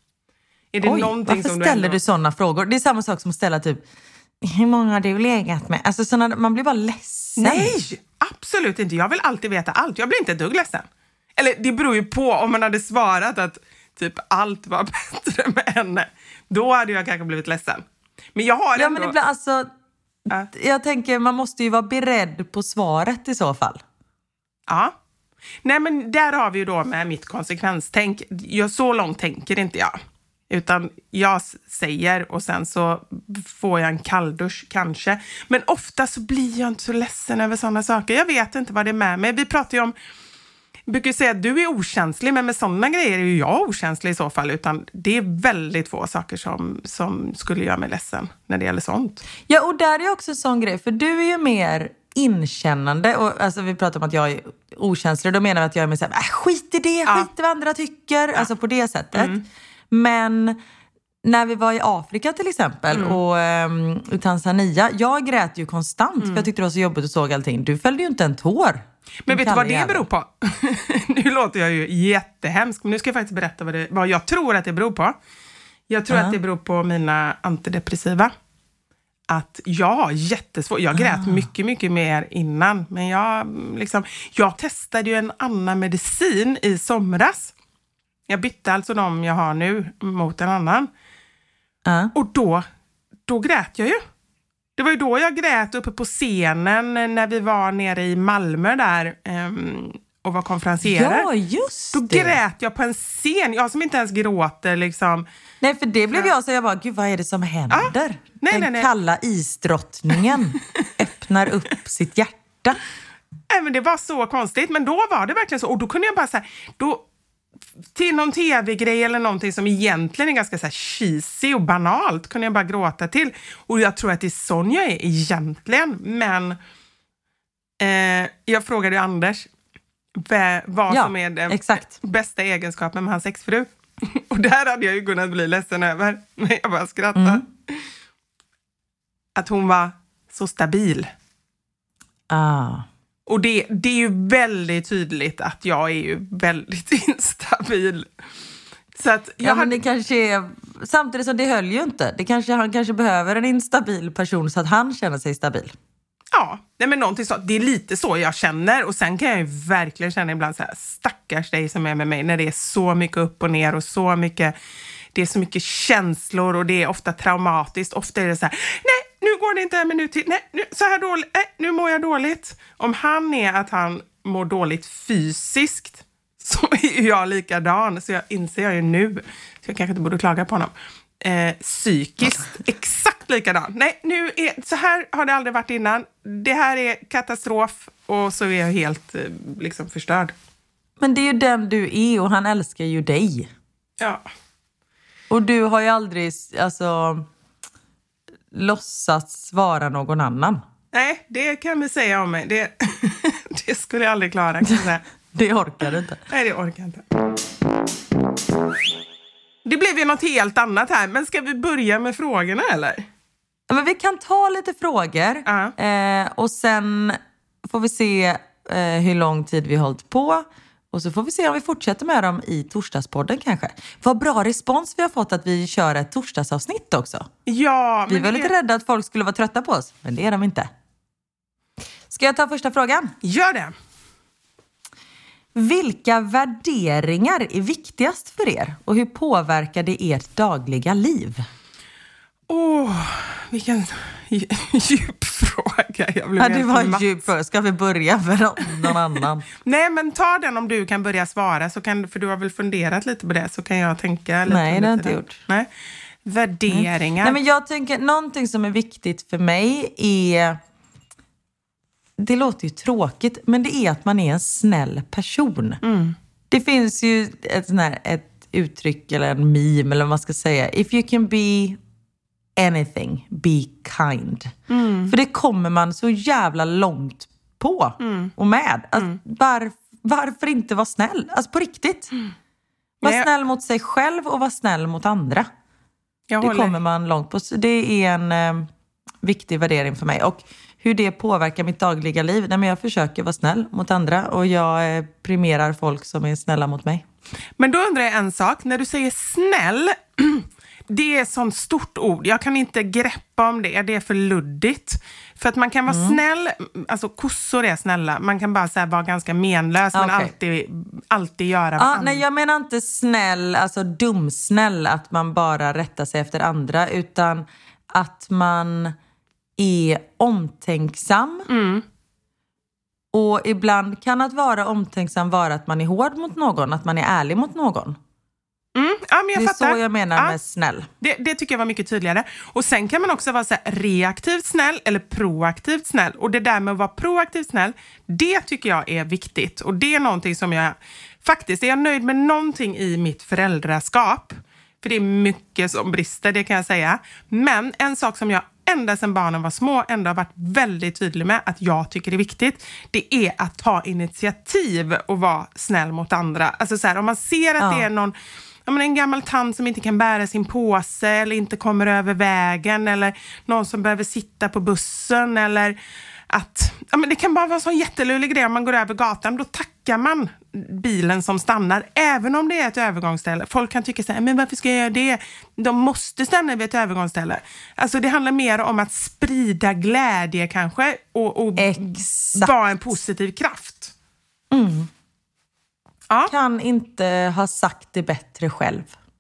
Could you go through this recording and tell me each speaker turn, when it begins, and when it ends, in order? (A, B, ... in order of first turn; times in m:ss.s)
0:00.7-0:02.0 A
0:00.8-0:03.8 B
0:04.4-0:07.7 B
0:07.4-0:10.8 A
0:11.4-0:17.8 A
0:18.4-0:19.2 A
0:18.8-0:19.7 B
0:20.5-0:23.8 B
0:24.7-0:24.9 A
0:25.6-0:30.0 A
0:30.5-0:40.0 A
0:40.9-0:49.2 A
0:49.5-1:00.6 B
0:59.1-0:59.4 A
1:01.2-1:10.1 B
1:02.9-1:03.2 A
1:06.2-1:06.5 A
1:09.3-1:15.2 A
1:15.9-1:18.3 A
1:16.1-1:16.4 B
1:19.3-1:27.5 A
1:20.9-1:21.5 B
1:28.3-1:30.9 A
1:31.9-1:32.1 B
1:32.1-1:32.6 A
1:33.3-1:34.0 A
1:34.8-1:41.3 A
1:40.8-1:42.4 B
1:41.9-1:45.3 A
1:45.6-1:52.8 B
1:47.7-1:48.9 A
1:53.5-1:57.0 A
1:58.0-2:06.6 A
2:07.8-2:09.5 A
2:10.2-2:17.4 A
2:10.9-2:12.0 B
2:17.2-2:17.4 B
2:19.4-2:21.1 A
2:22.3-2:22.9 B
2:23.3-2:28.1 A
2:29.0-2:29.8 A
2:29.4-2:35.8 B
2:36.3-2:44.5 A
2:45.2-3:10.3 A
3:11.0-3:13.5 B
3:15.3-3:17.3 B
3:18.5-3:20.6 B
3:20.9-3:25.0 A
3:25.3-3:26.2 B
3:26.3-3:27.0 A
3:29.6-3:33.1 A
3:33.7-3:47.3 B
3:35.5-3:35.7 A
3:47.5-3:48.5 A
3:48.1-3:50.7 B
3:52.1-3:53.1 B
3:53.2-3:53.7 A
3:55.6-4:01.4 B
4:02.5-4:07.1 A
4:06.4-4:09.5 B
4:09.6-4:15.7 A
4:14.5-4:15.4 B
4:16.3-4:17.4 A
4:16.7-4:20.6 B
4:22.2-4:25.8 B
4:25.8-4:26.2 A
4:26.5-4:31.8 B
4:32.6-4:34.5 B
4:34.7-4:35.1 A
4:35.1-4:42.1 B
4:38.0-4:38.3 A
4:43.0-4:45.5 B
4:46.3-4:46.8 A
4:46.4-4:48.7 B
4:49.2-4:57.0 B
4:57.6-5:12.2 A
5:05.9-5:06.2 B
5:09.9-5:10.3 B
5:11.8-5:19.0 B
5:19.6-5:21.5 B
5:21.5-5:21.8 A
5:23.1-5:28.0 B
5:28.8-5:30.4 A
5:29.4-5:30.9 B
5:31.0-5:58.1 A
5:57.6-5:57.9 B
5:58.7-6:05.8 A
6:06.3-6:23.9 A
6:21.6-6:22.5 B
6:24.5-6:24.9 B
6:26.3-6:28.9 B